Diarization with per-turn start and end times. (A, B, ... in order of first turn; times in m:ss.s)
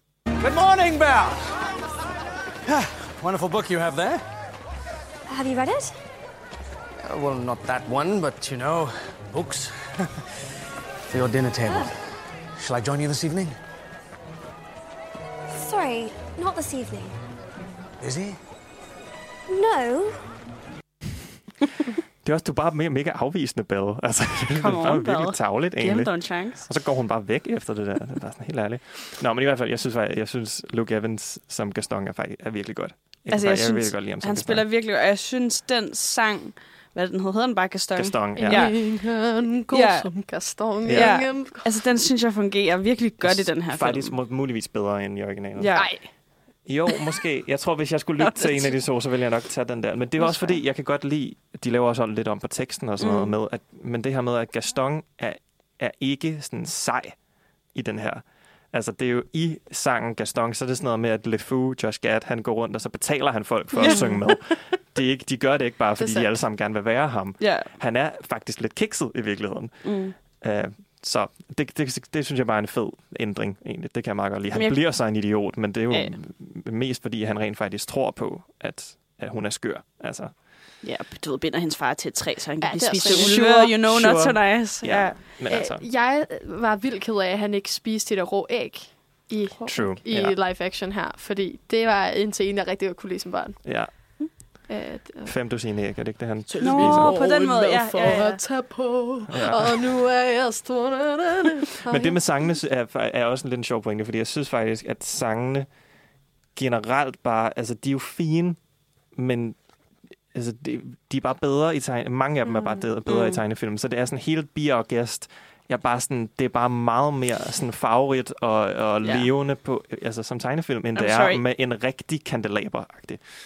0:00.4-0:01.7 A
0:02.6-0:04.2 A
0:05.3-0:06.0 B
0:07.0-0:10.1 A
0:11.1-0:12.0 A
0:12.6-0:13.6 A
0:15.5-0:17.2 B
0:18.0-0:18.4 A
0:19.5-0:20.2 B
0:22.2-0:34.6 C
0:24.6-0:26.9 D
0:33.3-0:44.2 D
0:37.9-0:38.7 C
0:38.4-0:41.7 E
0:40.8-0:41.2 C
0:43.2-0:57.2 C
0:45.6-0:46.4 D
0:45.7-0:46.0 E
0:48.2-0:48.7 D
0:50.2-0:50.5 D
0:53.0-0:53.3 D
0:57.7-1:20.4 C
1:03.8-1:04.1 E
1:03.8-1:04.4 D
1:06.0-1:06.3 E
1:07.4-1:07.7 D
1:09.8-1:10.1 D
1:14.5-1:16.2 D
1:20.8-1:25.3 D
1:22.6-1:23.7 E
1:23.0-1:25.8 C
1:25.5-1:35.4 E
1:29.6-1:29.9 D
1:29.7-1:30.4 C
1:33.6-1:34.7 C
1:35.2-1:37.2 C
1:36.5-1:38.6 D
1:36.6-1:42.4 E
1:39.3-1:39.8 C
1:41.8-1:45.8 C
1:46.5-2:03.2 C
1:53.0-1:53.4 D
1:59.0-1:59.3 D
2:00.9-2:01.4 D